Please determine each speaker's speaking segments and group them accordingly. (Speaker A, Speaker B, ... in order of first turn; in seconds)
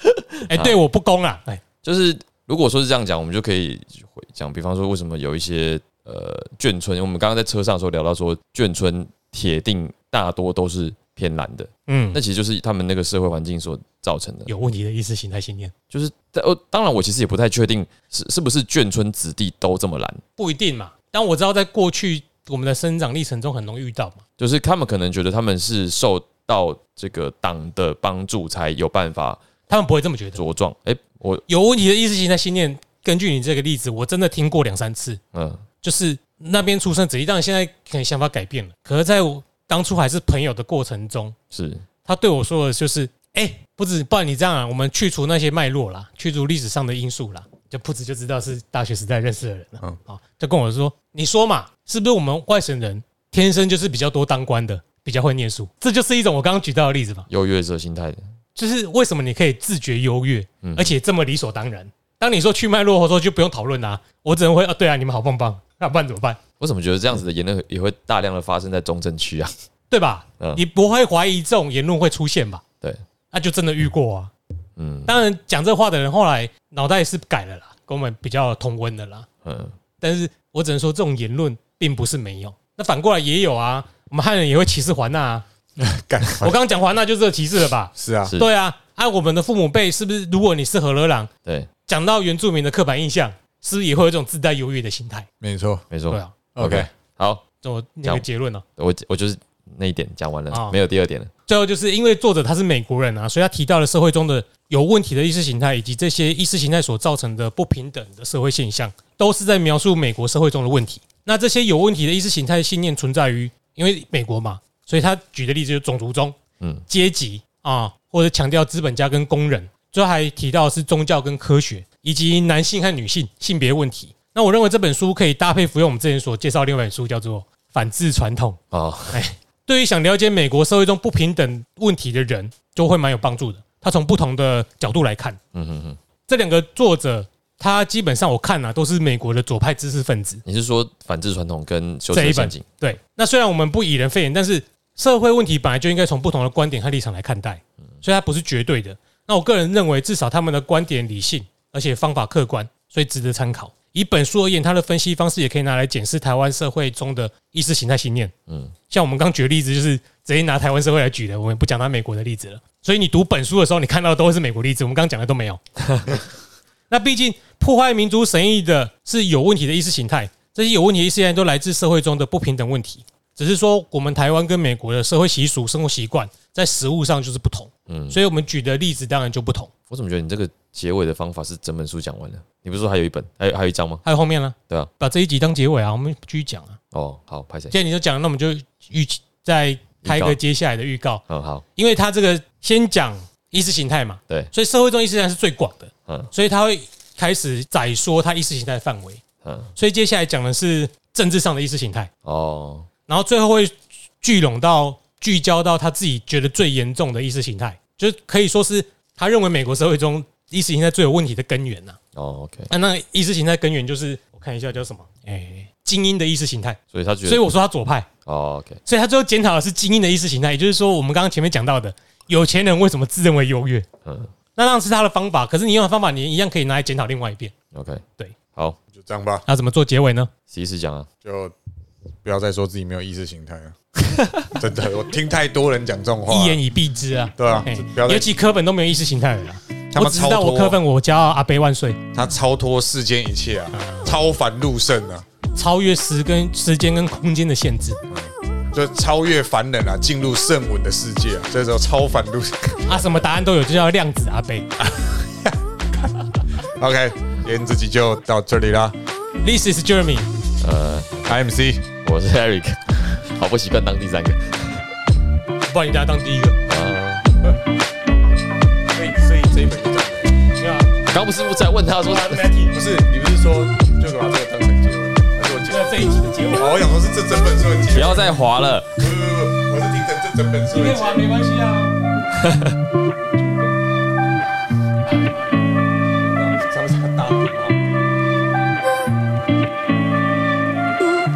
Speaker A: 0.4-0.8, 1.8-14.5, 15.9-20.2, 24.4-29.4, 30.4-31.4, 35.3-35.6, 41.5-41.8, 57.3-58.2, 60.6-60.9, 66.6-69.5, 74.8-75.1, 79.5-79.8, 95.9-97.4, 98.8-101.3, 116.6-116.9, 128.7-129.2, 135.5-136.0, 140.4-142.7, 158.5-158.7, 177.9-178.2, 179.9-184.0, 186.9-187.8, 190.1-190.4, 191.3-191.6, 199.4-199.7, 202.2-202.9, 212.1-212.7, 216.9-217.4, 218.3-218.8, 224.1-224.3, 227.7-228.0, 230.5-231.1, 234.2-234.5, 260.6-261.4, 262.0-264.9, 266.7-267.2, 271.1-272.4, 277.9-278.9, 282.4-282.8
Speaker B: 0.5-1.6, 11.9-12.2, 14.5-15.7, 20.4-24.2, 29.7-30.4, 31.5-35.2, 35.8-41.4, 42.0-57.3, 58.6-66.4, 69.9-72.6, 73.3-74.3, 75.1-79.3, 80.0-85.5, 86.4-91.3, 91.9-95.3, 97.6-98.6, 100.5-100.8, 101.5-116.4, 116.9-128.6, 129.1-135.4, 136.3-140.4, 142.1-158.3, 158.9-165.6, 166.9-179.7, 184.0-186.8, 187.7-191.2, 191.8-199.2, 199.8-202.1, 203.1-212.0, 212.7-218.1, 218.9-223.9, 224.6-227.5, 229.4-230.3, 236.3-242.0, 243.7-244.2, 245.6-248.0, 252.9-254.7, 259.4-260.3, 265.7-266.6, 270.6-270.9, 272.0-272.8, 275.7-276.9, 280.7-282.0, 285.0-285.6
Speaker C: 85.8-86.5, 88.0-88.3, 95.4-95.8, 96.5-96.9, 228.9-229.4, 231.2-231.6, 232.2-233.8, 234.5-236.6, 237.4-238.3, 239.9-240.8, 242.1-245.3, 248.1-253.0, 254.8-255.6, 256.6-258.9, 261.3-261.9, 268.9-270.4, 272.7-278.4, 279.0-281.2, 283.2-283.8, 286.2-287.8